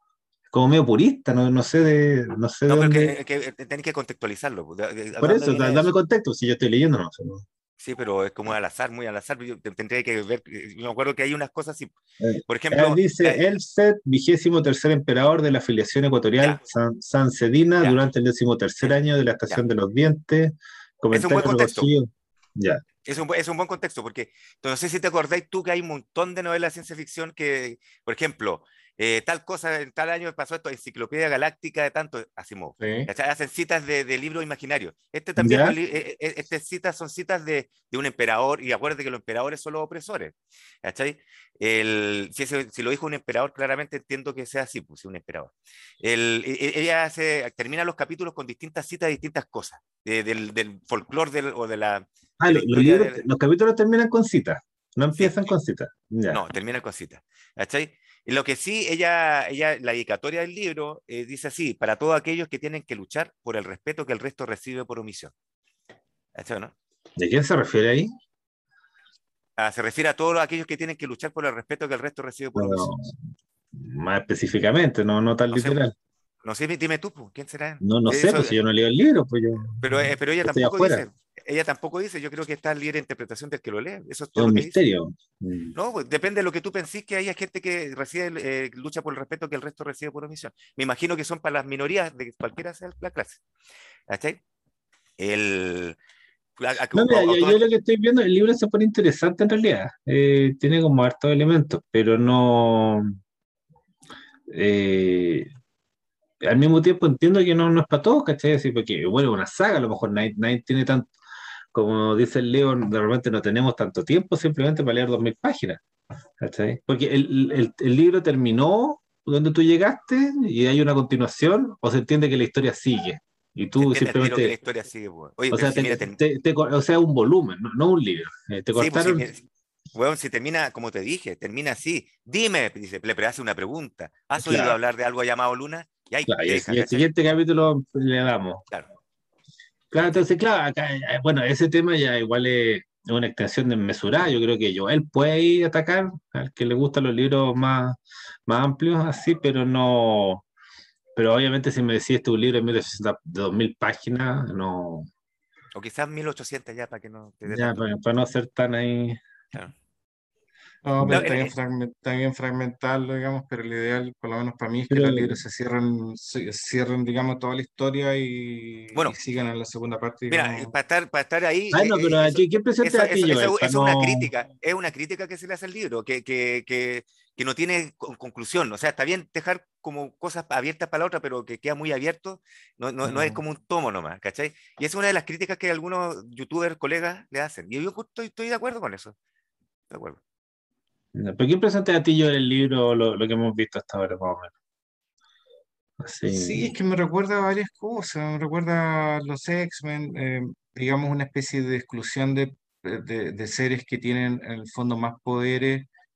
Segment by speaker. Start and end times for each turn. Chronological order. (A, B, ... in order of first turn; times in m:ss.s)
0:00.5-0:03.1 A
0:02.7-0:05.9 B
0:05.2-0:07.4 A
0:07.8-0:11.9 B
0:12.2-0:22.8 A
0:12.4-0:13.6 B
0:21.1-0:21.9 B
0:23.0-0:53.2 B
0:32.8-0:33.1 C
0:35.4-0:35.7 A
0:52.4-0:56.4 A
0:55.1-0:55.4 B
0:56.3-1:05.3 B
1:06.4-1:06.7 B
1:07.2-1:08.1 A
1:09.6-1:12.9 B
1:12.5-1:13.1 A
1:13.7-1:15.9 A
1:15.5-1:15.8 B
1:16.4-1:18.6 B
1:17.8-1:21.0 A
1:19.8-1:24.8 B
1:24.4-1:25.7 A
1:25.7-1:33.4 B
1:34.1-1:34.4 B
1:35.2-1:36.0 B
1:36.6-1:37.6 B
1:36.9-1:43.1 A
1:44.5-1:45.5 A
1:46.4-1:51.1 A
1:51.7-1:55.8 A
1:56.4-2:04.5 A
2:03.8-2:06.2 B
2:05.5-2:09.3 A
2:08.7-2:17.1 B
2:14.4-2:14.8 A
2:16.2-2:18.6 A
2:19.9-2:30.4 A
2:20.0-2:20.3 B
2:31.2-2:35.1 A
2:35.7-2:38.0 B
2:37.5-2:39.2 A
2:40.8-2:50.7 C
2:41.0-2:41.5 B
2:44.9-2:45.4 A
2:50.3-3:09.1 B
2:51.7-2:54.3 A
3:03.0-3:03.4 A
3:09.9-3:10.2 B
3:11.1-3:14.5 A
3:16.0-3:16.7 A
3:16.3-3:25.9 C